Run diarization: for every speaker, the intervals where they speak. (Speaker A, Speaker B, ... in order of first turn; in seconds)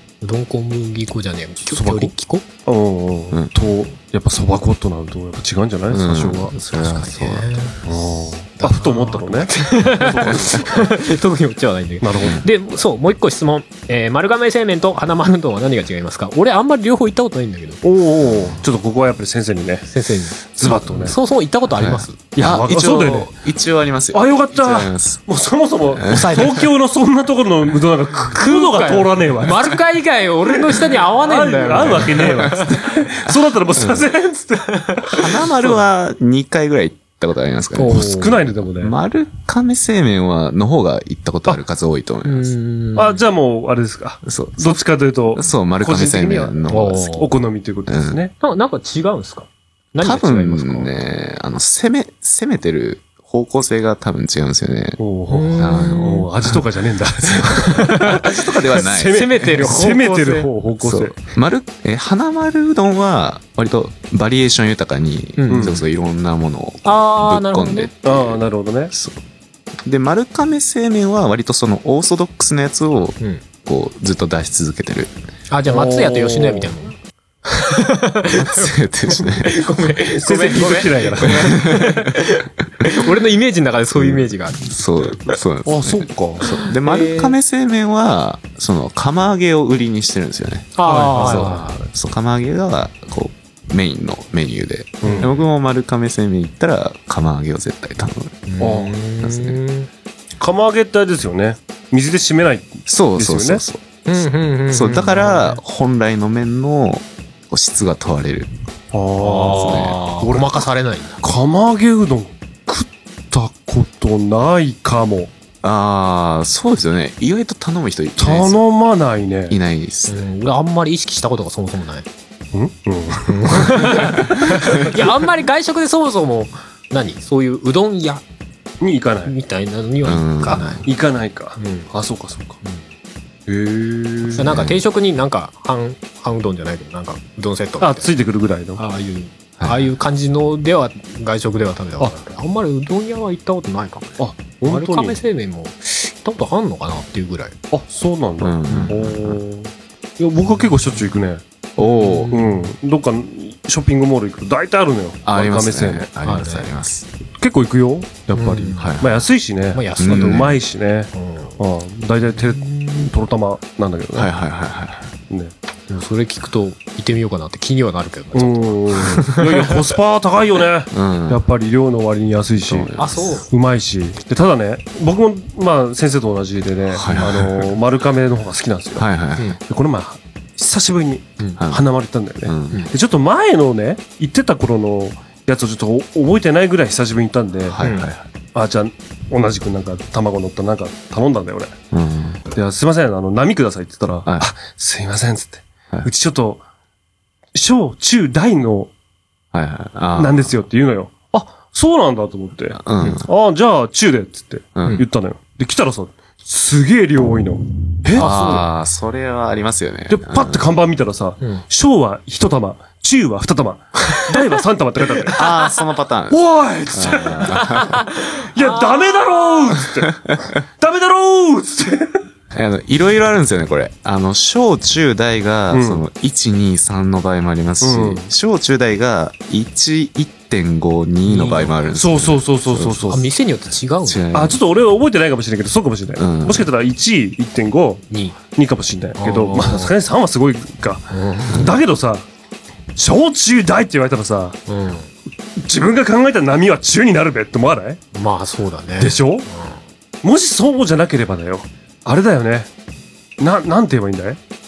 Speaker A: 0.2-2.5, 6.7-7.8, 8.6-17.8, 19.9-22.2, 26.1-26.6, 28.3-32.9, 34.8-35.0, 37.8-38.3, 42.2-43.2, 46.7-47.3, 48.4-50.9, 55.3-56.2, 57.5-58.3, 59.0-60.5, 65.4-65.7, 66.8-67.9, 75.5-84.8, 86.4-87.3, 90.8-91.8, 95.0-95.4, 98.5-99.9, 104.1-105.6, 109.2-111.2, 120.1-122.1, 123.3-128.2, 129.3-130.8, 131.6-131.9, 134.3-138.1, 138.8-147.6, 148.7-148.9, 151.8-152.7, 156.2-156.7, 158.3-159.0, 159.7-160.5, 161.1-161.5, 162.6-163.1, 165.9-169.6, 173.0-173.5, 187.8-188.1, 208.1-208.6, 217.8-219.2, 231.3-231.7, 233.1-234.3, 238.1-238.4, 239.2-239.9, 241.1-241.8, 244.7-245.1, 248.2-249.8
Speaker B: 1.7-2.1, 2.7-6.6, 7.9-10.9, 12.0-12.4, 17.8-19.9, 20.4-21.2, 22.3-23.3, 24.1-29.8, 30.7-35.0, 37.8-39.0, 43.0-48.3, 55.0-61.2, 65.5-65.8, 68.0-68.9, 75.7-76.8, 80.1-81.6, 85.7-86.5, 90.8-91.8, 95.0-95.3, 98.6-98.9, 100.4-103.6, 108.9-110.6, 111.2-115.3, 118.2-119.6, 122.5-124.1, 128.8-129.3, 130.5-132.6, 133.5-134.5, 137.8-138.8, 144.2-145.2, 147.7-151.4, 152.3-156.1, 157.4-164.3, 168.3-179.1, 179.6-187.8, 188.6-191.8, 192.5-196.6, 197.6-198.9, 200.2-208.6, 210.1-215.4, 216.3-222.2, 225.7-226.0, 227.8-228.3, 231.9-233.3, 234.3-242.3, 243.0-244.6, 245.6-248.0, 249.0-249.5, 250.2-252.7, 253.4-254.4
Speaker C: 5.9-7.6, 10.3-10.6, 21.8-25.2, 26.0-26.4, 31.8-32.7, 33.3-34.1, 35.0-42.6, 44.2-44.8, 45.3-47.3, 47.9-48.2, 50.0-55.0, 55.6-56.3, 57.4-59.7, 60.8-68.4, 68.9-69.2, 69.8-75.2, 78.3-79.7, 81.3-82.0, 84.0-98.5, 99.2-99.6, 102.9-103.8, 104.7-108.5, 109.5-110.0, 115.6-118.6, 119.5-120.3, 124.5-124.8, 130.0-130.8, 134.4-134.8, 139.6-139.8, 148.4-149.4, 151.8-152.3, 155.3-157.1, 158.7-159.3, 160.0-160.6, 164.1-165.1, 170.9-171.4, 172.7-173.4, 176.9-177.7, 179.0-179.5, 181.6-181.8, 182.4-182.8, 187.7-188.2, 191.9-192.4, 199.5-200.6, 202.7-203.3, 204.8-205.0, 208.2-210.7, 215.3-218.0, 220.2-220.5, 222.5-233.2, 234.1-234.6, 236.2-236.7